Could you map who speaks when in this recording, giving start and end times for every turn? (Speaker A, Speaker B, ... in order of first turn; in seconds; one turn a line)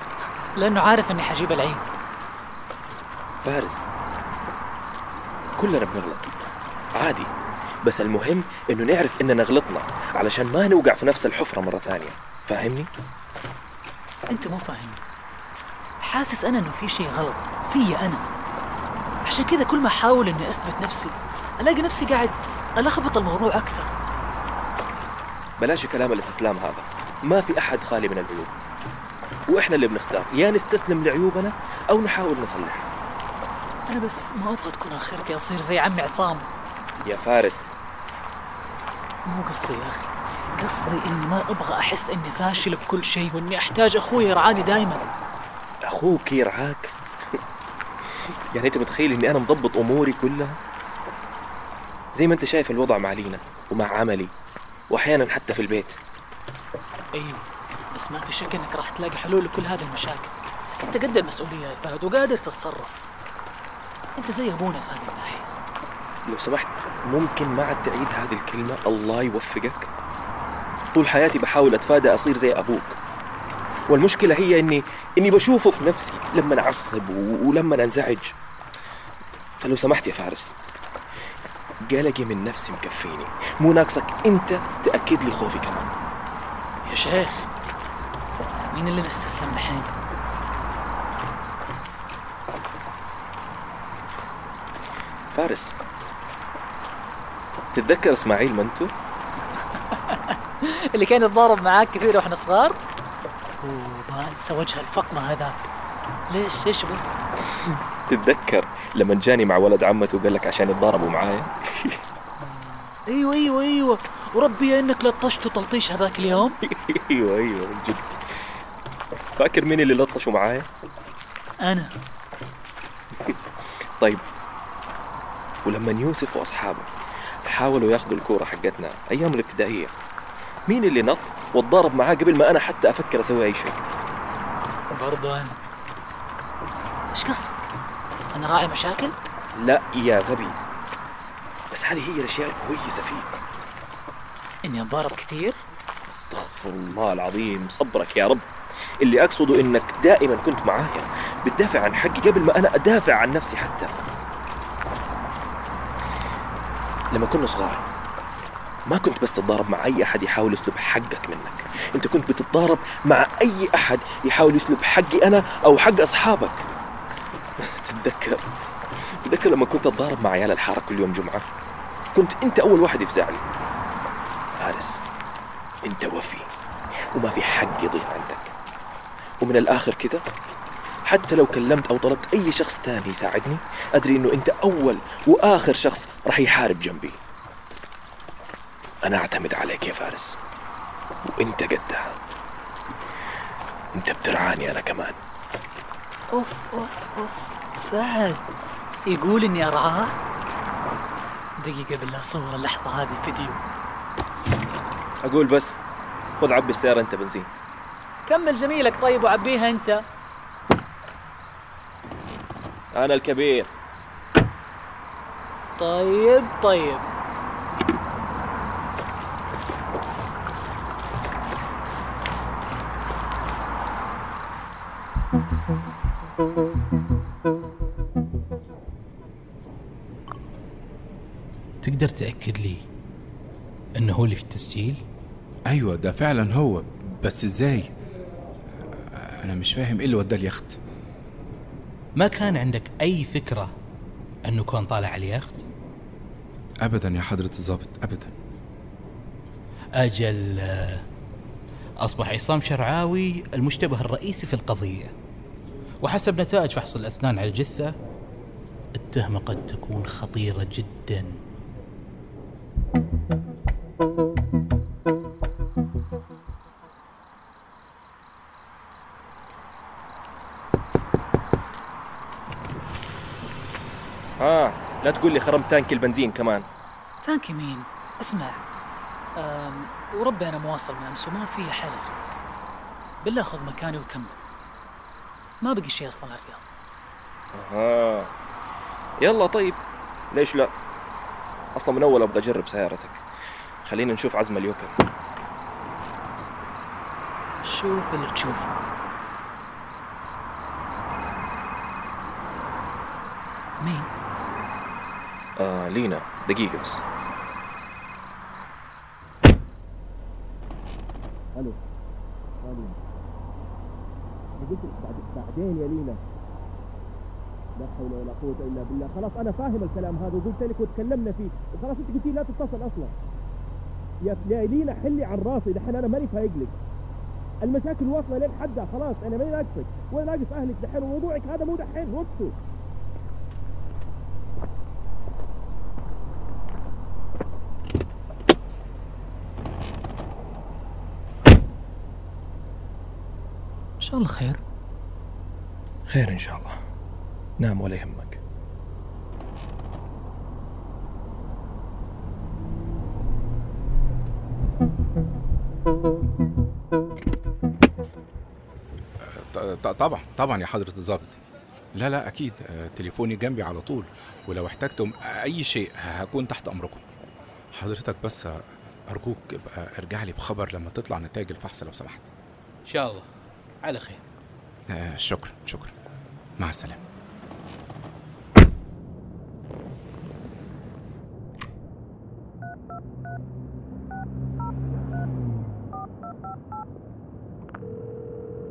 Speaker A: 0.6-2.0
Speaker B: 3.4-3.9
Speaker B: 5.6-6.3
Speaker B: 7.0-7.3
Speaker B: 7.8-12.9
Speaker A: 14.3-15.0
Speaker A: 16.0-18.2
Speaker A: 19.3-23.9
Speaker B: 25.6-28.5
Speaker B: 29.5-32.9
Speaker A: 33.9-36.5
Speaker B: 37.0-37.7
Speaker A: 39.3-45.1
Speaker B: 45.9-47.4
Speaker B: 48.5-50.5
Speaker B: 52.2-54.3
Speaker B: 54.9-56.0
Speaker A: 57.1-63.1
Speaker A: 64.2-65.5
Speaker B: 66.3-69.9
Speaker B: 71.0-73.0
Speaker B: 73.9-78.3
Speaker B: 79.6-80.5
Speaker B: 81.9-85.9
Speaker A: 86.9-87.5
Speaker A: 88.7-89.9
Speaker B: 95.3-95.8
Speaker B: 97.7-98.9
Speaker A: 99.9-102.8
Speaker A: 103.6-105.7
Speaker A: 106.3-107.1
Speaker B: 107.7-112.0
Speaker A: 112.4-116.6
Speaker B: 116.6-118.1
Speaker B: 119.4-120.7
Speaker A: 121.6-122.0
Speaker B: 125.7-126.9
Speaker B: 127.5-129.9
Speaker B: 130.7-133.8
Speaker A: 134.9-135.6
Speaker A: 137.1-137.7
Speaker A: 138.3-139.2
Speaker B: 139.6-140.6
Speaker B: 141.7-143.4
Speaker A: 144.7-145.6
Speaker B: 146.1-148.4
Speaker B: 149.0-153.9
Speaker B: 157.1-157.8
Speaker B: 158.9-166.7
Speaker B: 167.6-168.4
Speaker B: 169.2-171.5
Speaker B: 172.2-173.4
Speaker B: 174.6-175.0
Speaker B: 175.8-176.5
Speaker B: 177.2-178.5
Speaker B: 179.4-180.2
Speaker B: 181.1-187.2
Speaker B: 189.1-190.4
Speaker B: 191.3-192.2
Speaker B: 193.9-195.2
Speaker A: 196.3-200.2
Speaker A: 201.6-203.6
Speaker B: 205.2-205.8
Speaker B: 206.4-207.5
Speaker A: 208.3-210.1
Speaker B: 212.9-213.7
Speaker A: 215.8-217.1
Speaker C: 231.8-232.8
Speaker C: 234.0-235.0
Speaker D: 235.7-237.9
Speaker D: 239.1-240.8
Speaker C: 242.2-243.7
Speaker C: 244.5-245.6
Speaker D: 246.8-248.3
Speaker C: 250.0-250.7
Speaker C: 252.1-255.1
Speaker C: 256.0-257.9
Speaker C: 259.0-261.2
Speaker B: 274.4-276.6
Speaker A: 277.2-278.6
Speaker A: 279.4-282.4
Speaker A: 283.2-284.4
Speaker A: 285.6-286.6
Speaker B: 287.6-288.3
Speaker B: 289.2-289.8
Speaker B: 290.3-290.7
Speaker B: 291.8-293.2
Speaker B: 293.9-294.9
Speaker A: 297.6-298.7
Speaker A: 303.8-304.1
Speaker B: 305.6-307.0
Speaker B: 312.6-313.0
Speaker B: 314.6-316.2
Speaker B: 317.8-323.1
Speaker B: 324.2-326.8
Speaker B: 327.6-332.6
Speaker A: 344.0-344.6
Speaker B: 346.1-346.8
Speaker B: 347.6-348.4
Speaker D: 359.2-361.4
Speaker D: 361.9-367.0
Speaker D: 367.7-372.3
Speaker C: 372.9-373.2
Speaker C: 373.9-374.2
Speaker D: 374.9-375.9
Speaker D: 376.6-377.0